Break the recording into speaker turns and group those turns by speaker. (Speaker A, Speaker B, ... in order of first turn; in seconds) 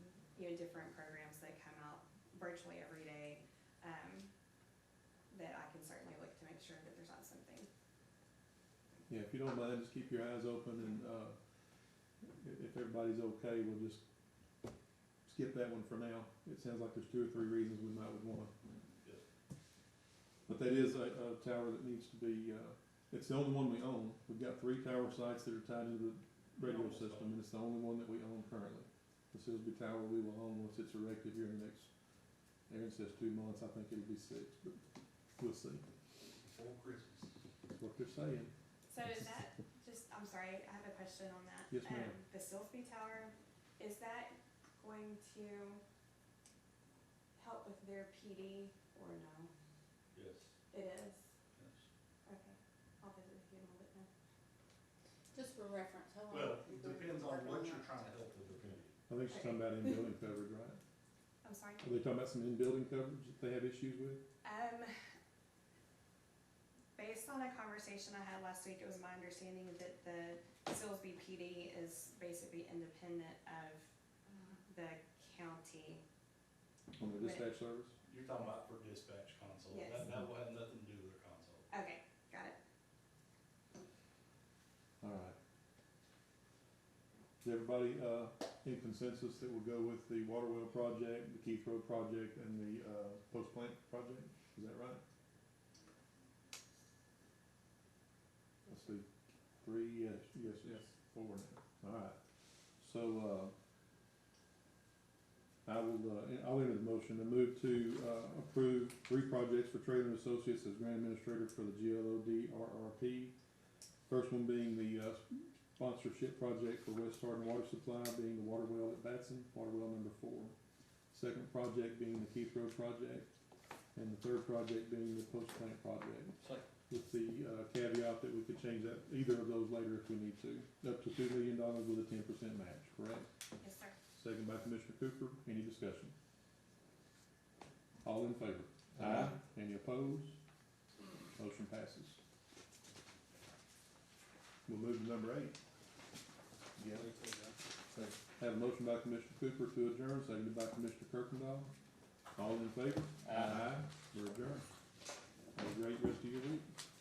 Speaker A: 0.3-4.3, 5.3-7.7, 38.9-45.8, 47.4-49.5, 50.7-51.3, 52.2-54.1, 59.3-59.7, 61.4-61.9, 64.4-64.9, 67.0-73.9, 74.7-76.0, 77.2-77.5, 79.7-80.1, 81.7-82.6, 133.6-134.0
Speaker B: 9.1-11.4, 12.2-14.0, 15.3-18.5, 20.5-31.9, 32.7-34.8, 35.4-35.8, 37.8-38.5, 41.7-42.2, 59.1-60.8, 61.8-64.2, 77.0-78.0, 85.0-85.4, 87.4-95.0, 98.7-99.1, 99.6-102.2, 102.8-103.5, 105.7-113.3, 114.1-120.5, 121.1-123.3, 124.0-133.3, 134.2-136.1, 138.0-140.4, 141.4-142.2, 144.7-145.6, 146.8-147.1, 148.3-151.7, 152.3-154.7, 155.6-156.7
Speaker C: 26.6-27.4, 36.4-37.3, 50.1-50.5, 51.6-51.9, 56.3-58.9, 78.1-81.7, 146.9-147.6
Speaker D: 55.3-57.9